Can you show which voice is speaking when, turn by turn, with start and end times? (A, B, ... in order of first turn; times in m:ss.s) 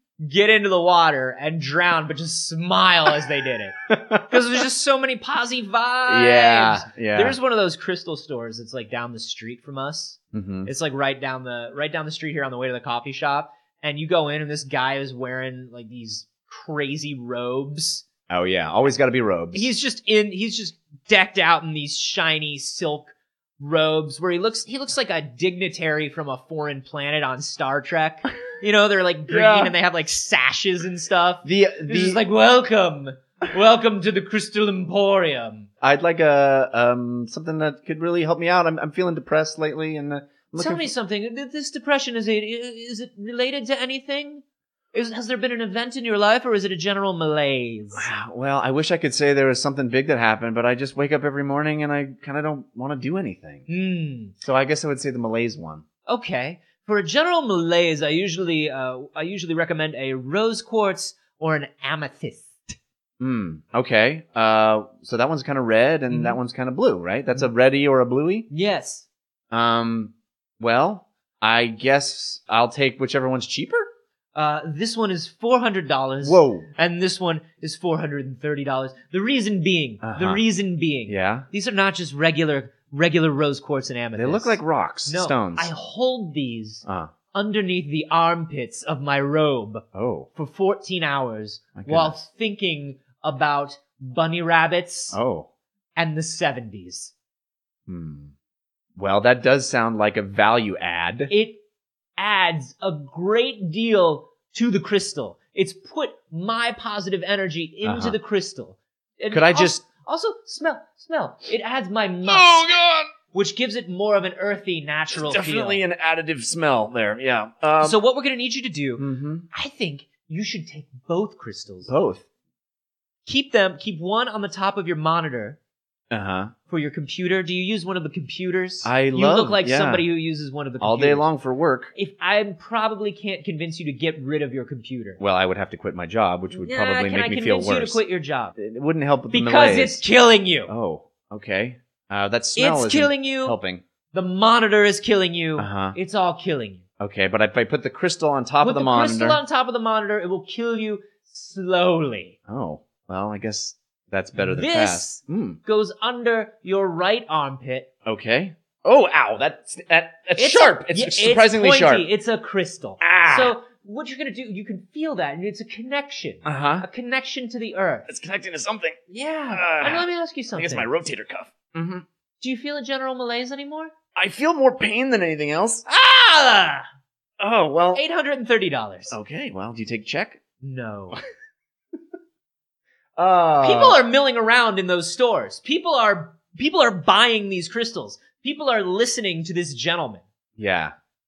0:00.2-0:03.8 A
0:03.9-0:04.4 B
0:04.3-0:18.0 A
0:06.1-0:07.4 B
0:10.3-0:10.7 B
0:18.3-0:19.7 B
0:19.5-0:35.7 A
0:29.3-0:29.8 B
0:31.4-0:32.2 B
0:35.8-0:40.9 B
0:40.6-0:48.1 A
0:48.0-0:53.7 B
0:53.7-0:54.3 A
0:54.4-0:55.8 B
0:56.1-1:02.7 A
1:03.2-1:08.5 B
1:06.1-1:06.4 A
1:08.5-1:09.1 A
1:09.5-1:13.9 B
1:14.4-1:29.8 A
1:16.2-1:16.7 B
1:20.0-1:20.4 B
1:21.1-1:21.5 B
1:24.2-1:25.7 B
1:26.8-1:27.1 B
1:29.9-1:30.3 B
1:30.4-1:35.2 A
1:31.8-1:32.2 B
1:35.1-1:35.5 B
1:36.0-1:37.1 A
1:37.9-1:38.3 B
1:39.0-1:41.3 B
1:41.3-1:41.6 A
1:42.2-1:52.8 A
1:47.8-1:48.2 B
1:49.3-1:49.8 B
1:52.2-1:53.1 B
1:53.3-1:55.8 A
1:55.1-1:58.0 B
1:57.8-2:01.9 A
1:59.0-1:59.5 B
2:01.9-2:02.3 B
2:03.3-2:05.6 A
2:06.1-2:06.5 B
2:06.7-2:11.3 A
2:08.8-2:10.1 B
2:10.8-2:11.9 B
2:12.0-2:15.2 A
2:15.2-2:18.0 B
2:16.5-2:18.5 A
2:18.6-2:20.0 B
2:19.3-2:20.7 A
2:20.7-2:23.8 B
2:22.6-2:23.6 A
2:24.1-2:26.8 A
2:25.6-2:26.0 B
2:27.0-2:29.4 B
2:28.6-2:32.4 A
2:32.5-2:35.6 B
2:34.4-2:37.9 A
2:38.1-2:42.1 B
2:40.4-2:48.1 A
2:43.0-2:43.5 B
2:46.4-2:46.9 B
2:48.1-2:49.0 B
2:49.1-2:50.9 A
2:49.5-2:52.0 B
2:52.4-2:53.9 A
2:54.2-2:55.8 B
2:55.9-2:56.8 A
2:57.4-2:58.0 B
2:57.9-2:59.2 A
2:59.1-3:00.4 B
3:00.6-3:01.2 A
3:03.2-3:04.0 B
3:03.6-3:10.2 A
3:10.6-3:10.9 B